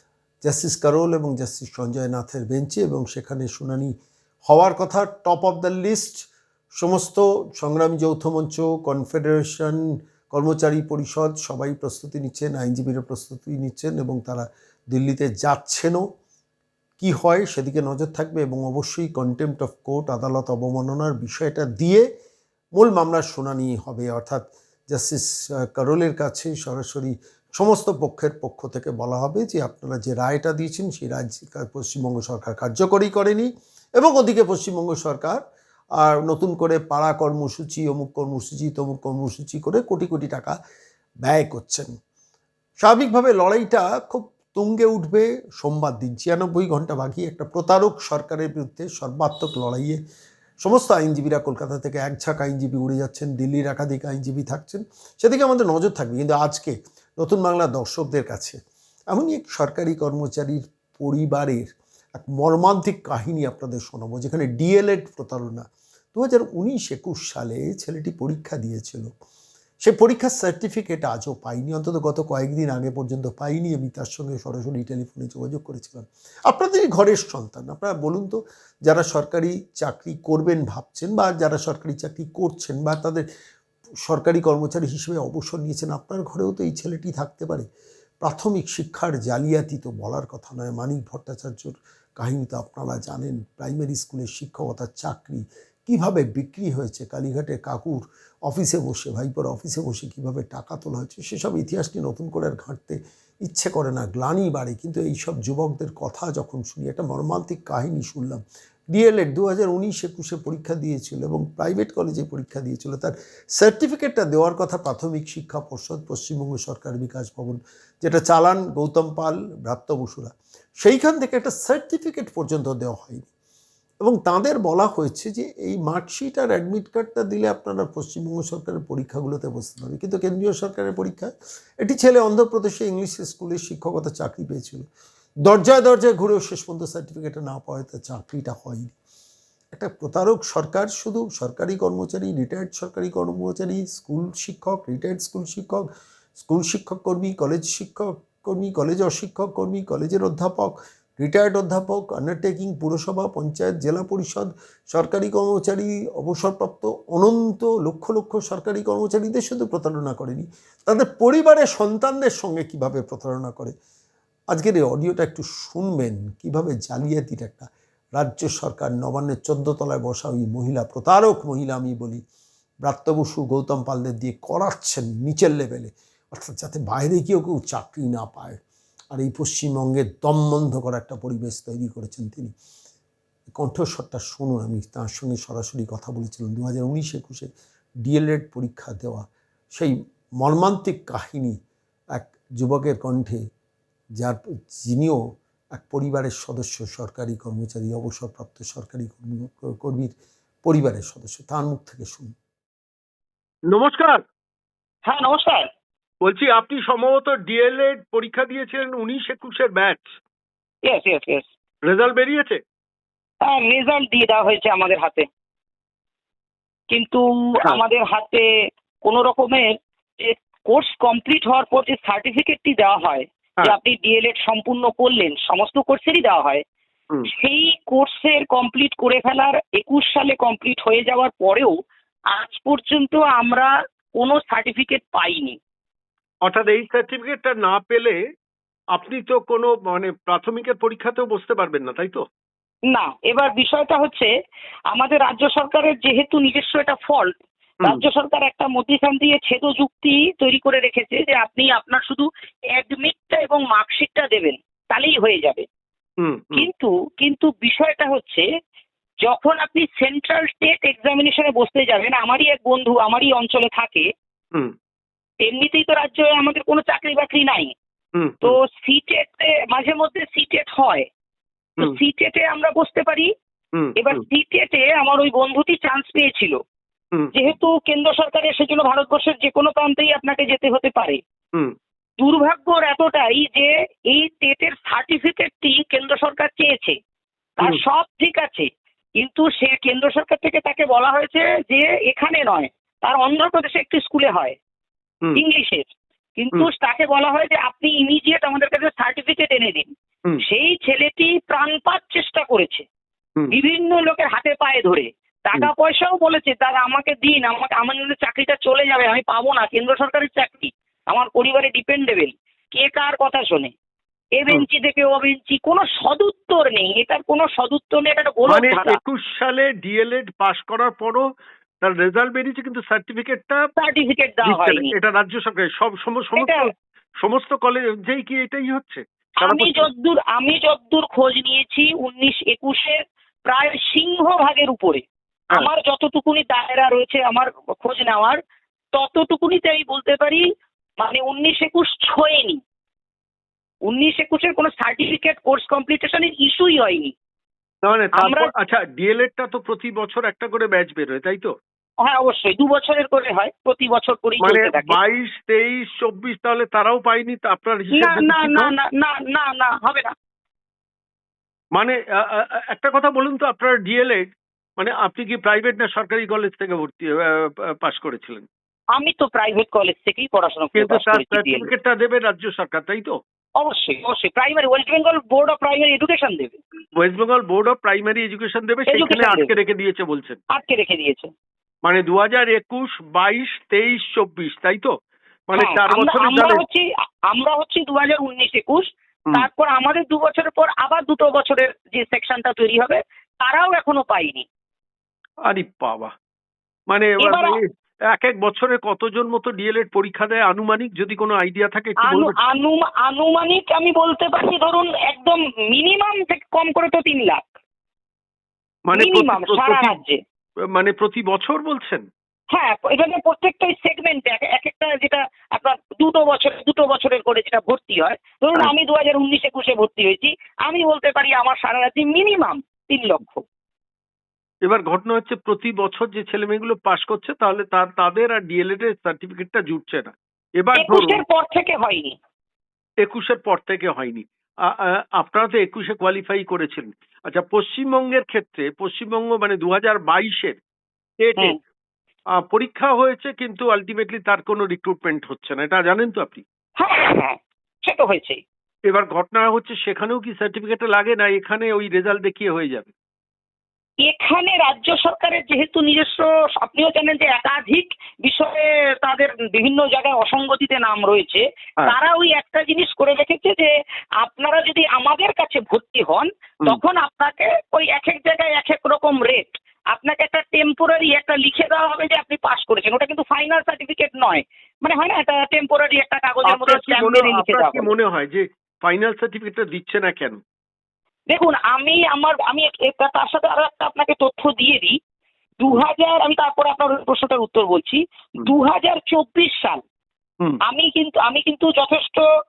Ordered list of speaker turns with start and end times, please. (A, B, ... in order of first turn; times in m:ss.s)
0:00.4-0:03.9 A
0:04.5-0:16.0 A
0:17.0-0:22.0 A
0:22.8-0:35.4 A
0:36.0-0:40.5 A
0:41.2-0:41.9 A
0:42.8-0:50.0 A
0:50.6-0:58.6 A
0:59.1-1:09.1 A
1:09.8-1:23.2 A
1:24.0-1:27.7 A
1:28.2-2:03.3 A
2:04.0-2:14.9 A
2:15.4-2:19.0 A
2:19.7-2:25.9 A
2:26.4-2:43.7 A
2:44.5-2:52.2 A
2:52.8-2:58.6 A
2:59.1-3:02.5 A
3:03.5-3:07.5 A
3:08.0-3:11.6 A
3:12.2-3:13.4 A
3:14.2-3:15.2 A
3:15.7-3:22.3 A
3:23.7-3:24.2 B
3:25.0-3:25.6 C
3:26.2-3:30.1 B
3:30.8-3:31.5 C
3:31.8-3:32.6 B
3:33.4-3:35.3 C
3:36.9-3:38.4 C
3:39.0-3:39.7 C
3:40.2-3:46.6 C
3:47.3-3:51.7 C
3:52.3-3:53.7 C
3:54.2-3:55.6 C
3:56.4-3:58.2 B
3:58.9-4:02.2 B
4:02.9-4:04.3 C
4:04.9-4:07.3 C
4:07.8-4:15.6 C
4:16.2-4:16.7 B
4:16.6-4:18.4 C
4:19.2-4:24.1 C
4:25.4-4:27.7 C
4:28.2-4:28.6 B
4:28.4-4:31.1 C
4:31.8-4:33.3 C
4:33.7-4:34.2 B
4:34.0-4:36.6 C
4:37.3-4:41.2 C
4:42.2-4:46.9 C
4:47.6-4:48.7 C
4:49.2-4:54.6 C
4:55.4-4:59.9 C
5:00.4-5:02.8 C
5:03.5-5:13.7 C
5:14.4-5:19.0 C
5:18.5-5:21.2 B
5:21.8-5:23.6 B
5:23.8-5:24.9 C
5:24.4-5:29.9 B
5:26.4-5:26.7 C
5:29.4-5:38.4 C
5:38.9-5:40.4 C
5:41.0-5:42.6 C
5:43.9-5:47.1 C
5:47.8-5:51.5 B
5:48.2-5:48.5 C
5:52.0-5:55.0 C
5:54.4-5:58.7 B
5:57.9-6:00.1 C
6:01.7-6:08.5 B
6:08.9-6:11.7 C
6:10.7-6:13.2 B
6:13.6-6:16.6 C
6:17.0-6:20.4 B
6:18.9-6:19.5 C
6:20.5-6:21.3 C
6:21.8-6:24.9 B
6:25.5-6:26.6 B
6:25.6-6:34.4 C
6:35.5-6:36.1 B
6:36.9-6:42.4 B
6:37.2-6:37.6 C
6:42.0-6:47.5 C
6:48.9-6:49.9 B
6:48.9-6:50.2 C
6:50.7-6:52.0 B
6:52.5-7:03.4 C
7:04.6-7:11.2 B
7:10.8-7:12.1 C
7:13.0-7:20.6 B
7:21.2-7:21.6 B
7:22.4-7:26.4 B
7:26.8-7:28.4 C
7:28.9-7:32.9 B
7:34.0-7:43.7 C
7:44.2-7:57.9 C
7:56.4-8:00.4 B
8:01.3-8:04.9 C
8:05.6-8:09.8 C
8:10.7-8:12.2 C